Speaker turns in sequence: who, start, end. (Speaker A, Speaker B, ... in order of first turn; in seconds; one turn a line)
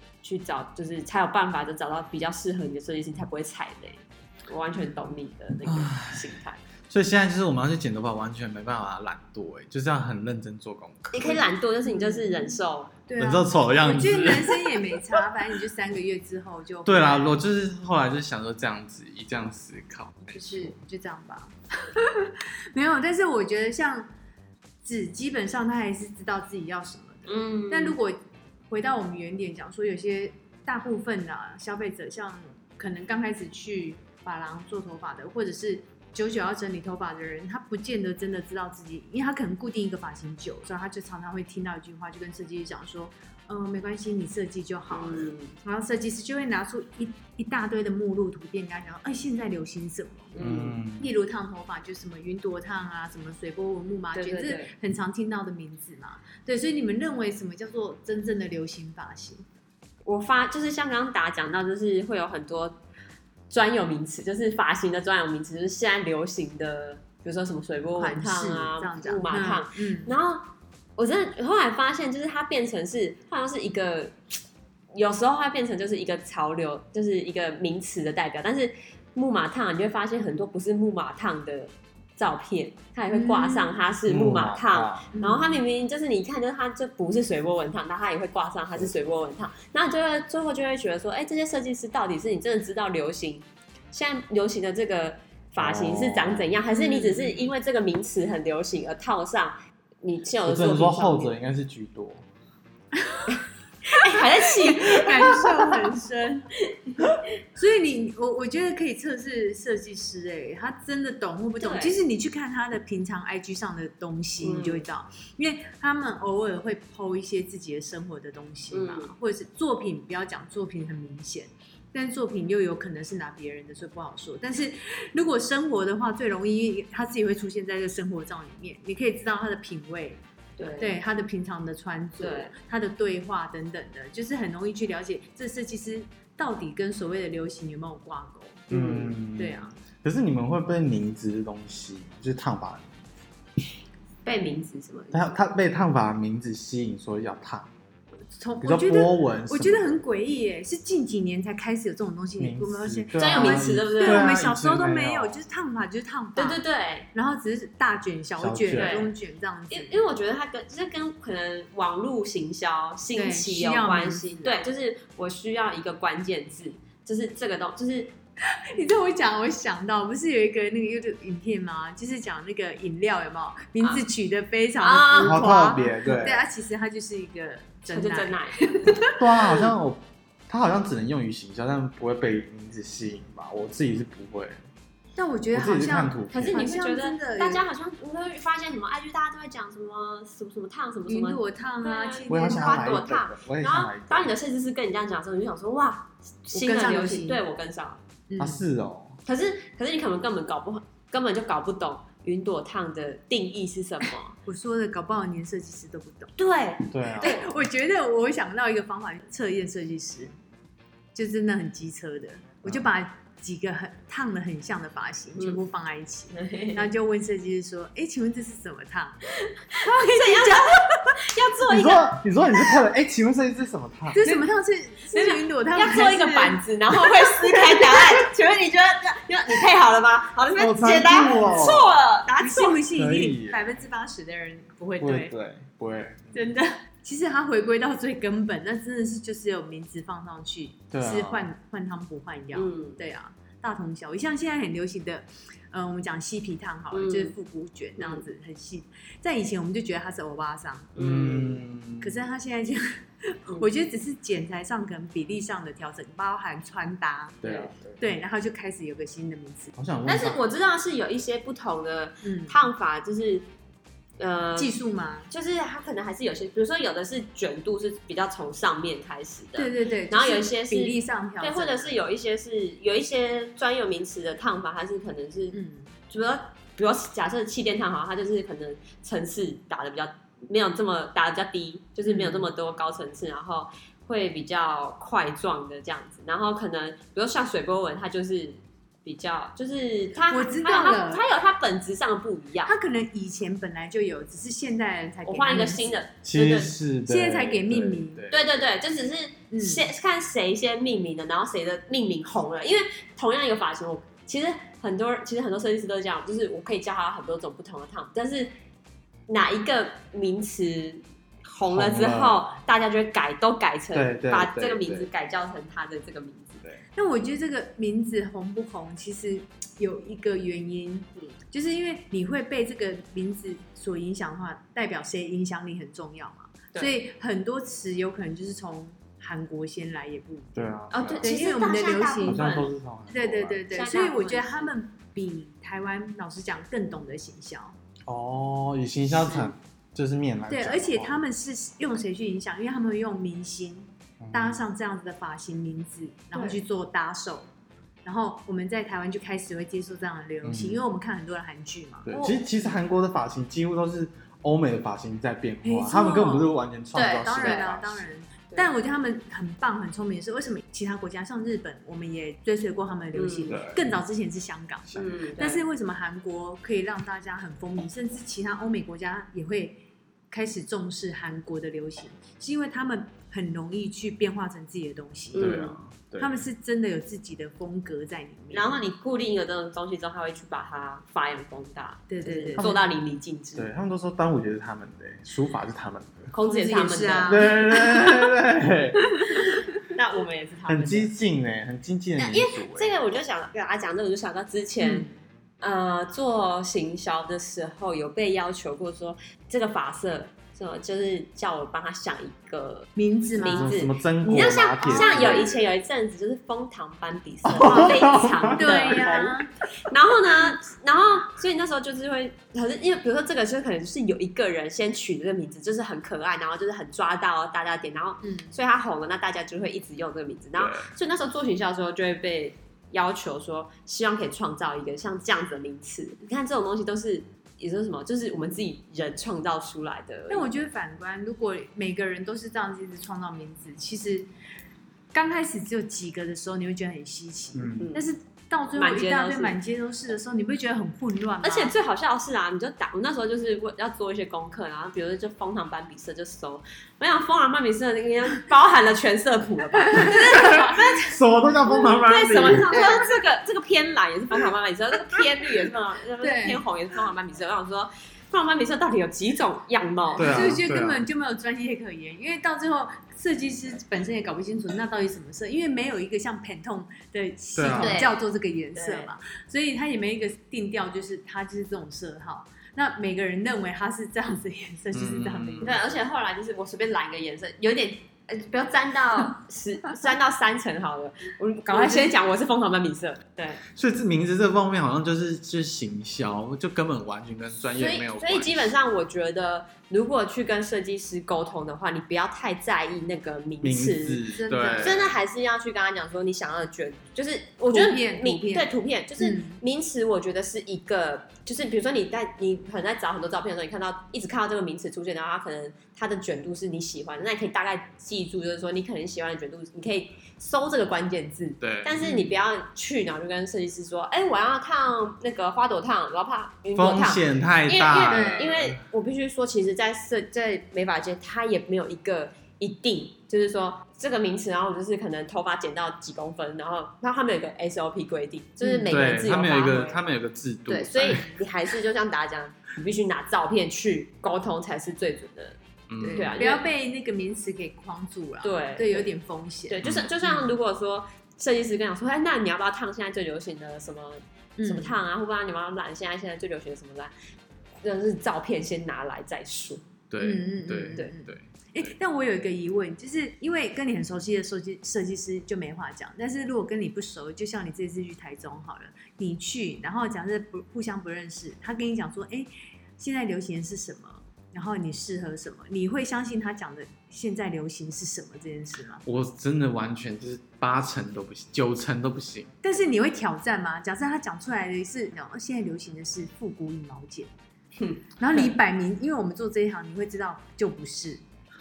Speaker A: 0.2-6.6
Speaker B: 5.6-6.3
Speaker B: 6.9-11.4
Speaker A: 11.1-12.9
Speaker C: 11.2-17.3
Speaker B: 13.2-14.6
Speaker B: 16.9-20.8
Speaker C: 20.2-24.1
Speaker C: 24.8-59.4
Speaker A: 27.3-28.0
Speaker A: 44.9-45.5
Speaker A: 50.3-50.8
Speaker B: 50.4-51.1
Speaker A: 54.1-54.7
Speaker A: 60.0-62.8
Speaker A: 63.5-74.2
Speaker C: 68.0-70.1
Speaker A: 74.9-101.3
Speaker C: 83.1-83.8
Speaker B: 84.0-85.1
Speaker C: 85.1-85.6
Speaker B: 95.6-96.5
Speaker C: 96.7-97.5
Speaker B: 100.4-102.2
Speaker C: 103.0-103.4
Speaker A: 103.3-105.8
Speaker C: 103.9-106.5
Speaker C: 107.5-130.2
Speaker A: 111.6-112.0
Speaker A: 114.4-114.8
Speaker A: 118.7-119.1
Speaker A: 130.6-131.0
Speaker C: 130.8-138.7
Speaker A: 132.2-132.5
Speaker A: 138.7-139.1
Speaker B: 138.7-142.9
Speaker C: 139.3-139.8
Speaker A: 144.2-145.4
Speaker B: 145.1-147.7
Speaker C: 148.3-156.6
Speaker B: 148.6-150.0
Speaker B: 152.4-155.4
Speaker A: 153.2-154.3
Speaker A: 156.3-157.1
Speaker C: 157.1-160.0
Speaker B: 158.4-159.0
Speaker A: 158.7-159.1
Speaker A: 159.7-168.1
Speaker C: 163.1-164.6
Speaker C: 168.7-179.6
Speaker A: 173.8-174.1
Speaker A: 174.8-175.8
Speaker B: 175.2-176.4
Speaker A: 177.9-179.1
Speaker B: 179.1-184.6
Speaker C: 185.2-187.6
Speaker B: 185.5-186.6
Speaker A: 186.3-198.0
Speaker C: 191.1-193.1
Speaker B: 192.3-194.3
Speaker C: 196.5-197.4
Speaker C: 198.3-198.6
Speaker B: 198.4-199.2
Speaker A: 199.2-204.4
Speaker C: 204.4-206.3
Speaker A: 206.4-207.4
Speaker B: 206.9-207.5
Speaker C: 207.2-210.3
Speaker C: 211.1-219.2
Speaker A: 216.3-216.9
Speaker A: 219.5-222.7
Speaker C: 219.8-221.1
Speaker B: 221.7-224.2
Speaker C: 224.1-228.2
Speaker A: 224.2-224.4
Speaker A: 225.1-232.8
Speaker B: 230.6-231.9
Speaker C: 232.4-235.3
Speaker B: 232.9-233.6
Speaker B: 235.0-236.5
Speaker C: 236.3-251.3
Speaker B: 240.9-241.5
Speaker A: 242.5-243.0
Speaker A: 246.9-247.3
Speaker A: 248.0-248.2
Speaker A: 250.9-251.6
Speaker B: 250.9-252.2
Speaker C: 252.0-257.4
Speaker B: 257.4-257.9
Speaker A: 257.4-257.8
Speaker C: 258.0-259.7
Speaker B: 259.8-260.4
Speaker A: 260.1-263.4
Speaker C: 262.2-262.6
Speaker A: 264.2-264.8
Speaker C: 264.6-265.3
Speaker A: 265.3-275.6
Speaker C: 269.6-271.9
Speaker C: 275.5-275.9
Speaker A: 276.1-292.7
Speaker C: 282.0-282.5
Speaker C: 290.2-291.2
Speaker C: 292.6-296.0
Speaker A: 295.2-296.7
Speaker B: 296.2-298.7
Speaker C: 297.1-298.2
Speaker A: 298.3-308.5
Speaker C: 299.5-299.9
Speaker A: 309.3-316.6
Speaker B: 311.7-312.5
Speaker B: 313.9-315.1
Speaker C: 316.9-332.5
Speaker B: 330.5-331.3
Speaker A: 330.9-332.7
Speaker B: 332.2-333.6
Speaker C: 333.1-337.8
Speaker A: 333.7-334.7
Speaker B: 338.1-341.2
Speaker A: 339.1-339.5
Speaker C: 340.5-347.5
Speaker B: 344.2-344.6
Speaker A: 346.3-346.6
Speaker C: 348.0-352.1
Speaker B: 350.4-350.8
Speaker B: 352.1-358.0
Speaker A: 352.1-352.4
Speaker C: 355.6-375.6
Speaker A: 356.9-357.6
Speaker A: 363.1-363.6
Speaker B: 363.5-363.9
Speaker B: 364.9-365.2
Speaker A: 364.9-365.6
Speaker A: 375.3-375.8
Speaker B: 375.4-376.4
Speaker C: 376.2-378.8
Speaker A: 378.5-383.7
Speaker C: 382.1-382.7
Speaker B: 382.6-382.9
Speaker B: 383.6-386.3
Speaker A: 386.3-388.1
Speaker C: 386.4-387.9
Speaker B: 387.3-389.0
Speaker C: 389.3-389.5
Speaker A: 389.3-391.1
Speaker B: 390.7-392.9
Speaker A: 392.2-395.1
Speaker C: 394.8-395.1
Speaker A: 395.6-430.5
Speaker C: 402.9-405.5
Speaker B: 403.4-405.6
Speaker B: 407.4-408.8
Speaker C: 407.6-408.0
Speaker C: 408.5-409.5
Speaker C: 418.2-418.5
Speaker B: 420.6-420.9
Speaker C: 430.3-434.3
Speaker C: 435.1-441.7
Speaker B: 437.5-437.9
Speaker A: 437.8-438.1
Speaker A: 438.7-439.6
Speaker A: 441.4-451.1
Speaker C: 449.9-450.8
Speaker B: 450.1-452.9
Speaker A: 451.8-460.6
Speaker C: 452.7-453.1
Speaker C: 456.2-456.6
Speaker B: 460.1-461.1
Speaker C: 460.2-475.9
Speaker B: 467.6-468.0
Speaker A: 467.7-468.2
Speaker A: 468.7-469.1
Speaker B: 474.9-475.8
Speaker A: 475.6-483.6
Speaker C: 481.7-482.1
Speaker B: 483.7-488.7
Speaker A: 487.8-494.2
Speaker B: 493.6-495.1
Speaker C: 494.3-495.1
Speaker A: 494.8-530.0
Speaker C: 497.7-499.6
Speaker B: 511.6-512.0
Speaker C: 512.0-512.3
Speaker B: 516.7-518.8
Speaker C: 518.1-518.6
Speaker C: 528.6-528.9
Speaker B: 528.9-531.3
Speaker A: 530.7-536.6
Speaker B: 535.9-536.4
Speaker C: 536.0-540.5
Speaker A: 538.4-539.1
Speaker A: 539.7-547.1
Speaker B: 539.8-540.1
Speaker C: 544.6-545.0
Speaker A: 547.8-549.8
Speaker B: 550.1-551.9
Speaker C: 550.2-569.0
Speaker B: 569.0-572.5
Speaker C: 572.6-577.3
Speaker A: 577.8-578.5
Speaker C: 578.2-581.2